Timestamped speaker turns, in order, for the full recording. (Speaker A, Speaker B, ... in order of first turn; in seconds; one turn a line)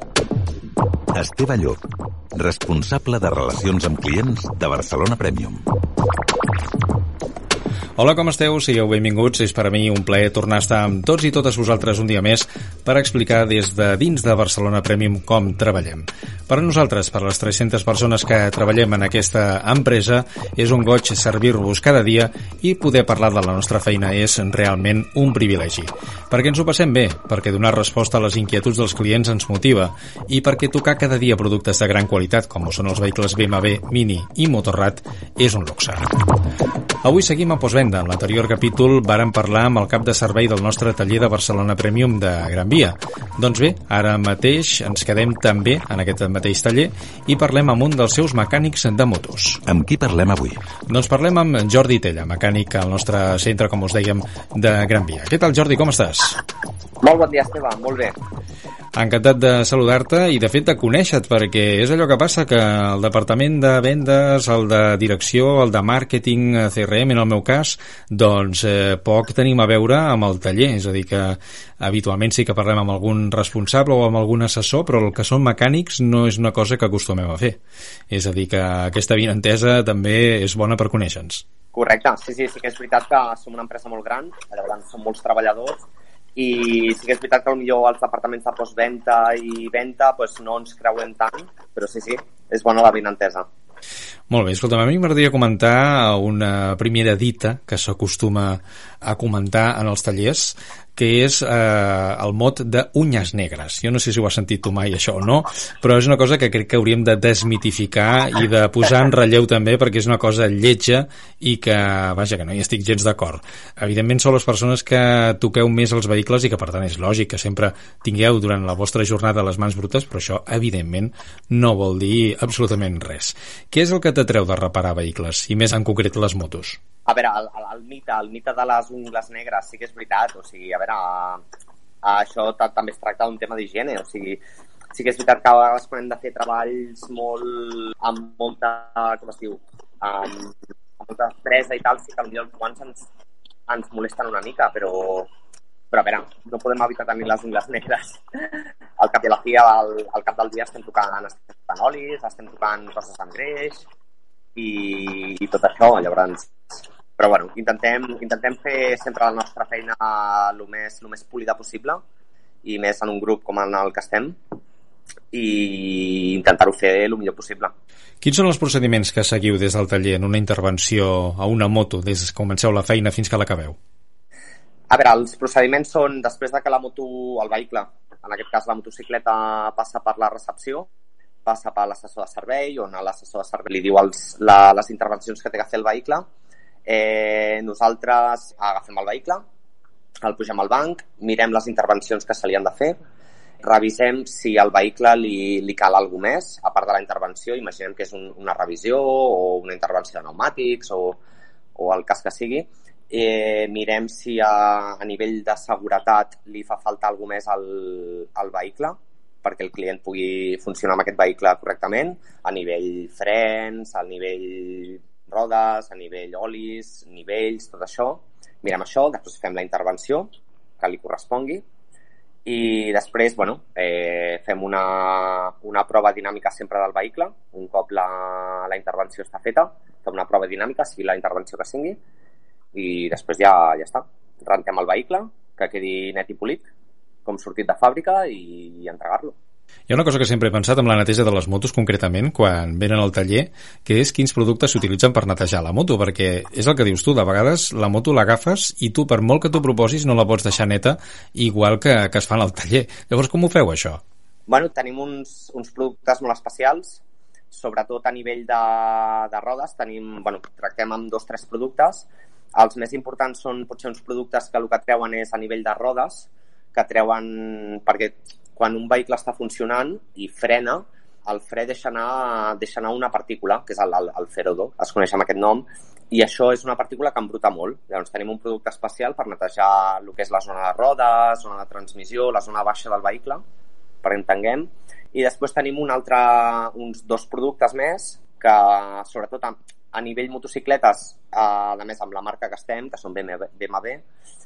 Speaker A: 1.1-1.8
Speaker A: 2.4-5.6
Speaker B: 8.0-36.1
Speaker B: 37.0-49.6
Speaker A: 49.7-50.6
Speaker B: 50.9-56.4
Speaker C: 57.0-58.2
Speaker B: 59.0-77.6
Speaker B: 78.1-81.4
Speaker C: 81.7-85.8
Speaker C: 86.4-93.5
Speaker B: 94.3-126.8
Speaker C: 127.1-131.4
Speaker C: 132.0-134.4
Speaker C: 134.9-143.0
Speaker C: 143.7-145.3
Speaker C: 145.9-153.8
Speaker C: 154.6-162.0
Speaker C: 162.6-164.4
Speaker C: 165.3-167.7
Speaker B: 168.2-173.8
Speaker C: 174.9-180.9
Speaker C: 181.4-186.2
Speaker C: 186.9-189.4
Speaker C: 190.2-193.0
Speaker C: 193.6-201.2
Speaker C: 201.8-221.6
Speaker C: 222.4-232.0
Speaker C: 232.7-236.7
Speaker C: 237.2-239.3
Speaker B: 239.9-254.0
Speaker C: 254.5-283.4
Speaker C: 284.0-294.0